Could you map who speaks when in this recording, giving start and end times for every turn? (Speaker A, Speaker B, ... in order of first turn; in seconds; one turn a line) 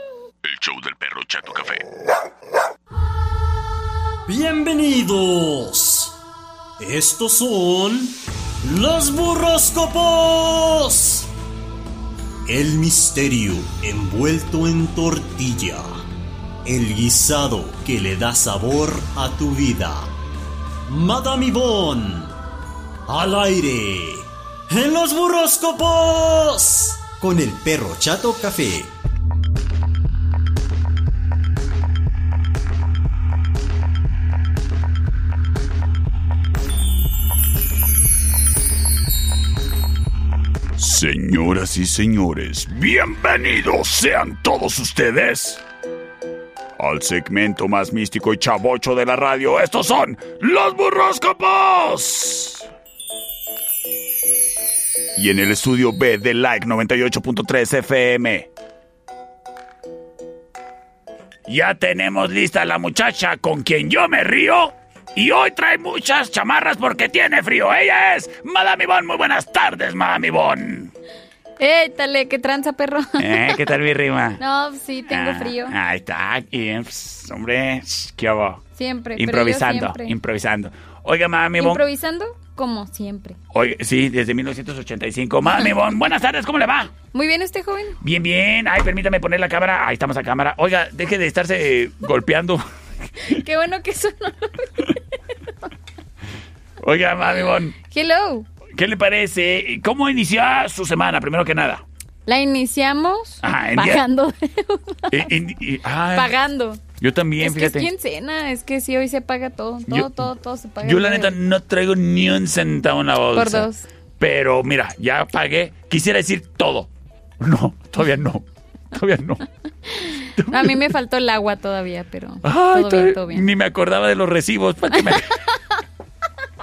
Speaker A: 0.4-1.9
Speaker B: 4.3-6.2
Speaker B: 6.8-11.3
Speaker B: 12.5-16.0
Speaker B: 16.6-20.1
Speaker B: 20.9-22.4
Speaker B: 23.1-28.9
Speaker A: 40.8-45.6
Speaker A: 46.8-52.7
Speaker A: 55.1-58.5
Speaker A: 61.5-70.9
Speaker C: 71.6-73.7
Speaker A: 73.2-74.4
Speaker C: 74.4-75.8
Speaker A: 75.1-78.6
Speaker C: 78.8-80.2
Speaker A: 79.2-81.8
Speaker C: 81.6-83.4
Speaker A: 83.5-86.9
Speaker C: 87.1-88.0
Speaker A: 88.0-92.6
Speaker C: 93.2-95.2
Speaker A: 96.8-97.8
Speaker C: 97.8-98.5
Speaker A: 98.7-101.8
Speaker C: 102.3-105.3
Speaker A: 103.4-104.0
Speaker A: 105.1-106.3
Speaker C: 106.1-106.8
Speaker A: 107.0-107.9
Speaker C: 107.4-111.4
Speaker A: 109.9-110.3
Speaker A: 110.8-113.7
Speaker C: 113.3-113.9
Speaker A: 114.2-116.9
Speaker A: 117.4-119.5
Speaker C: 119.9-123.5
Speaker A: 120.2-120.9
Speaker A: 122.4-125.4